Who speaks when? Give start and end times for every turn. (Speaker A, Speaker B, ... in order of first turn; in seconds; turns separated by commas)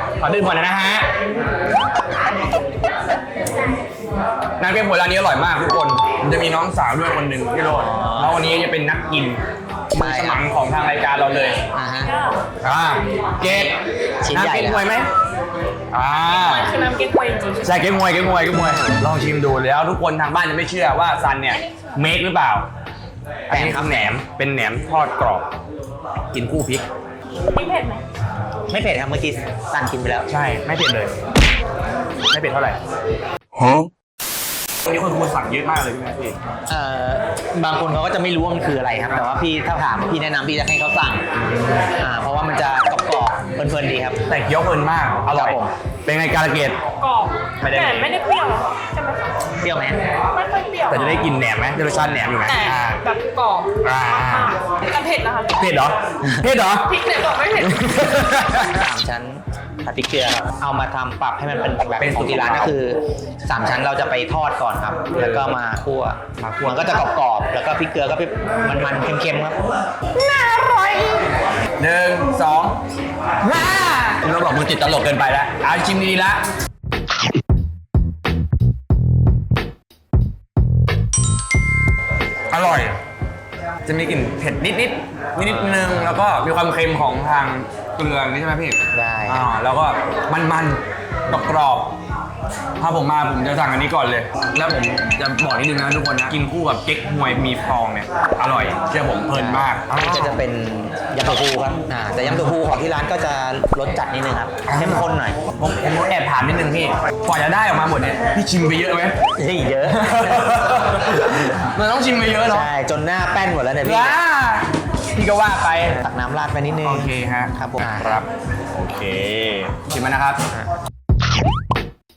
Speaker A: 0.2-1.1, Speaker A: 4.6-11.6, Speaker B: 7.7-8.4, Speaker B: 10.0-10.4, Speaker B: 11.7-12.1, Speaker C: 12.1-12.4, Speaker A: 12.6-13.8, Speaker B: 13.4-14.8, Speaker A: 14.3-15.1, Speaker A: 15.9-16.8, Speaker C: 16.3-17.7, Speaker A: 17.6-22.7, Speaker B: 23.5-24.2, Speaker A: 23.5-25.5, Speaker A: 26.3-26.9, Speaker C: 27.5-28.0, Speaker B: 28.7-30.3, Speaker A: 30.3-31.1, Speaker A: 32.3-32.8, Speaker A: 34.8-36.4, Speaker B: 36.7-41.3, Speaker A: 41.4-41.9, Speaker B: 42.0-44.2, Speaker A: 44.3-46.8, Speaker B: 45.3-45.7, Speaker C: 47.0-49.4, Speaker A: 47.6-48.2, Speaker B: 49.6-50.0, Speaker C: 50.3-51.3, Speaker A: 50.9-53.0, Speaker B: 51.9-52.4, Speaker C: 52.4-55.5, Speaker A: 53.8-54.6, Speaker A: 55.5-57.0, Speaker C: 56.9-57.9, Speaker A: 57.6-58.9, Speaker B: 58.5-69.6, Speaker A: 62.0-62.8, Speaker A: 65.1-65.5, Speaker A: 66.4-67.0, Speaker A: 70.2-71.2, Speaker A: 71.8-72.8, Speaker A: 73.4-76.4, Speaker A: 82.5-83.0, Speaker A: 83.8-92.0, Speaker B: 88.9-89.5, Speaker A: 92.8-100.4, Speaker B: 99.3-105.4, Speaker A: 102.2-102.6, Speaker A: 104.6-109.2, Speaker B: 109.4-110.6, Speaker A: 109.9-112.7, Speaker B: 112.5-114.2, Speaker A: 113.8-116.0, Speaker B: 115.9-118.2, Speaker A: 116.8-120.4